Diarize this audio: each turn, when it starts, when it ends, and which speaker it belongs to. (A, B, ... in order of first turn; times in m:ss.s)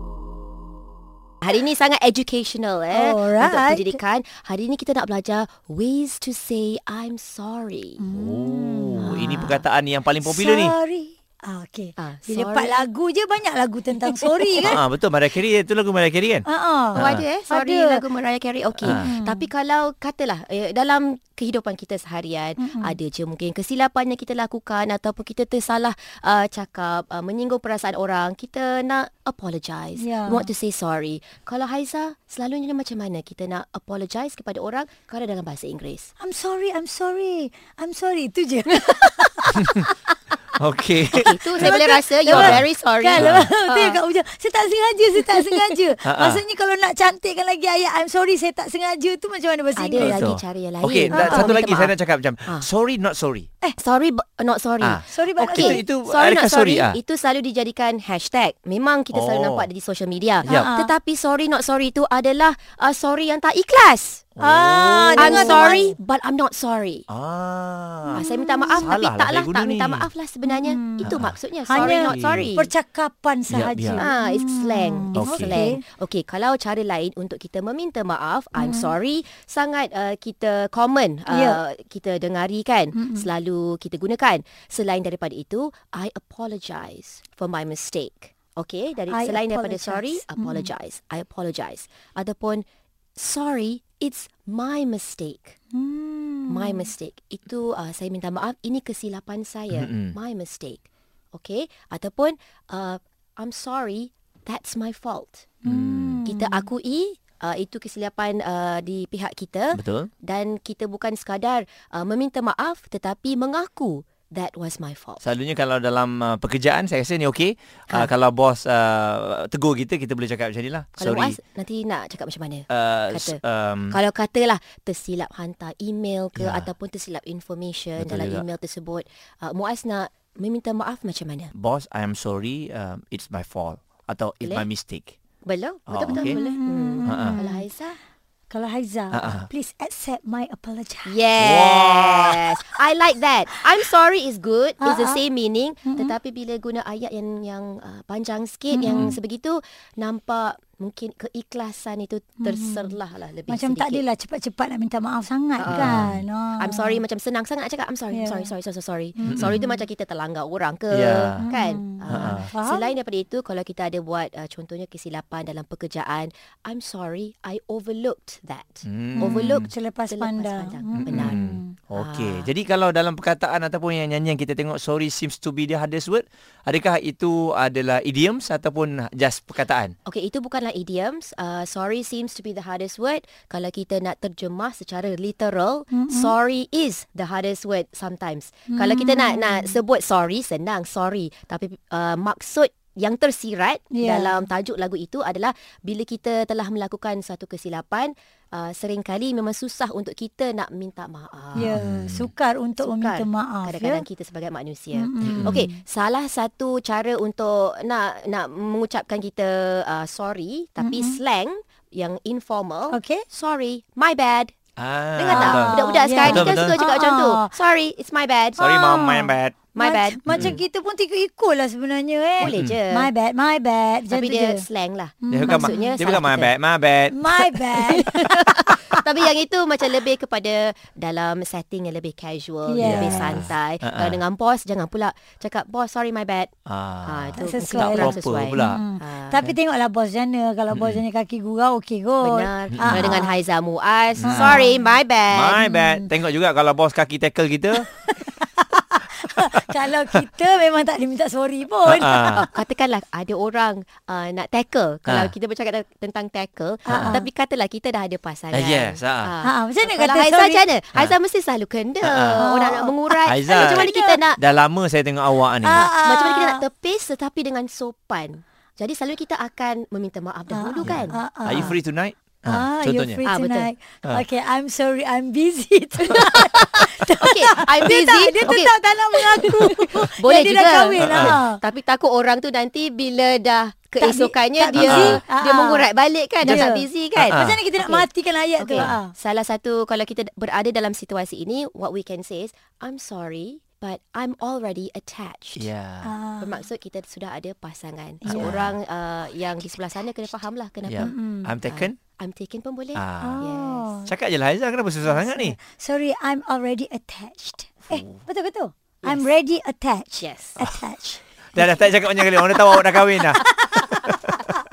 0:01.4-0:08.0 A
0:02.9-0:04.0 B
0:08.0-0:09.2 B
0:08.1-0:10.7 C
0:09.0-0:09.6 A
0:10.2-0:14.8 B
0:12.0-0:12.9 A
0:14.1-0:14.6 A
0:14.6-0:17.2 C
0:16.4-0:18.0 B
0:16.9-0:36.1 A
0:18.8-0:19.1 C
0:18.8-0:19.5 B
0:22.6-0:23.0 B
0:30.0-0:30.5 B
0:36.2-0:39.6 B
0:40.6-0:41.7 C
0:41.1-0:44.0 A
0:41.2-0:50.2 B
0:42.3-0:42.6 C
0:43.2-0:43.5 C
0:45.2-0:45.7 A
0:46.0-0:46.4 C
0:49.8-0:51.9 A
0:50.0-0:53.5 C
0:51.1-0:51.6 B
0:53.8-1:04.3 A
0:54.8-0:57.0 C
0:55.1-0:55.8 B
0:59.1-0:59.7 C
1:00.4-1:00.7 C
1:00.5-1:00.9 B
1:04.4-1:05.8 C
1:04.4-1:06.0 B
1:05.2-1:07.1 A
1:07.1-1:08.2 C
1:08.1-1:08.9 B
1:08.2-1:12.7 A
1:08.8-1:10.1 C
1:10.5-1:15.8 B
1:11.0-1:12.5 C
1:13.5-1:14.0 C
1:14.0-1:32.6 A
1:15.2-1:15.6 C
1:18.6-1:18.9 B
1:21.3-1:21.6 B
1:23.0-1:23.3 B
1:29.1-1:30.7 B
1:33.2-1:35.6 A
1:35.7-1:36.9 B
1:36.5-1:45.5 A
1:39.7-1:40.2 C
1:45.6-1:46.7 B
1:45.7-1:46.2 C
1:46.2-1:55.2 A
1:49.8-1:50.1 C
1:55.2-2:01.4 C
2:01.0-2:11.5 A
2:02.7-2:04.0 C
2:06.4-2:06.7 C
2:08.0-2:08.5 C
2:11.5-2:15.2 C
2:15.4-2:18.0 A
2:15.9-2:16.4 C
2:16.2-2:17.6 B
2:17.0-2:17.4 C
2:18.5-2:21.2 B
2:19.1-2:19.5 C
2:21.0-2:34.0 A
2:21.4-2:22.4 C
2:24.8-2:25.2 B
2:25.8-2:26.2 B
2:28.7-2:29.1 B
2:32.4-2:32.9 B
2:33.5-2:37.0 B
2:35.6-2:51.4 A
2:35.7-2:36.2 C
2:38.1-2:38.5 B
2:39.2-2:39.8 B
2:39.3-2:39.6 C
2:40.9-2:41.5 C
2:41.4-2:42.9 B
2:42.1-2:42.5 C
2:48.8-2:49.7 C
2:49.2-2:51.7 B
2:50.9-2:59.9 C
2:52.0-2:52.5 A
3:00.1-3:21.8 A
3:05.9-3:06.3 B
3:08.7-3:09.8 B
3:13.9-3:14.4 B
3:21.6-3:24.0 B
3:21.6-3:22.3 C
3:22.8-3:34.5 A
3:24.9-3:25.7 B
3:25.2-3:25.6 C
3:30.8-3:31.2 B
3:32.9-3:33.2 B
3:34.8-3:36.8 C
3:35.2-3:38.6 A
3:35.3-3:37.6 B
3:38.6-3:39.6 C
3:38.6-3:44.6 B
3:39.7-3:40.6 A
3:40.3-3:40.6 C
3:42.4-3:43.1 A
3:42.4-3:42.8 C
3:44.1-3:46.5 A
3:45.2-3:46.0 B
3:45.3-3:47.2 C
3:47.1-3:48.8 B
3:47.5-3:56.5 A
3:52.7-3:53.4 B
3:52.8-3:54.2 C
3:56.7-3:58.8 C
3:57.0-3:59.4 A
3:57.4-4:03.4 B
4:00.7-4:01.0 C
4:02.2-4:05.6 A
4:02.8-4:03.2 C
4:04.2-4:04.6 C
4:04.2-4:04.9 B
4:05.3-4:07.9 C
4:05.6-4:06.1 B
4:07.9-4:12.5 B
4:11.9-4:12.4 C
4:12.2-4:24.4 A
4:15.1-4:15.3 C
4:16.9-4:17.2 B
4:16.9-4:17.2 C
4:18.5-4:19.3 C
4:19.4-4:20.6 B
4:22.0-4:22.5 C
4:22.4-4:24.2 B
4:23.3-4:25.9 C
4:25.6-4:26.6 B
4:25.8-4:31.7 A
4:30.5-4:31.8 B
4:30.8-4:33.3 C
4:32.4-4:41.6 B
4:33.3-4:33.7 A
4:37.2-4:55.7 A
4:41.0-4:41.4 C
4:44.0-4:45.8 B
4:44.7-4:45.2 C
4:46.4-4:49.1 B
4:47.2-4:47.6 C
4:55.6-4:56.1 C
4:56.0-4:56.6 B
4:56.4-5:01.1 A
4:58.2-4:58.6 B
4:58.2-4:58.7 C
5:00.9-5:02.0 C
5:01.0-5:01.5 B
5:01.6-5:03.9 A
5:03.0-5:03.4 C
5:03.2-5:04.1 B
5:04.0-5:05.6 C
5:05.0-5:11.8 B
5:09.0-5:09.3 A
5:10.2-5:10.7 A
5:11.6-5:13.4 C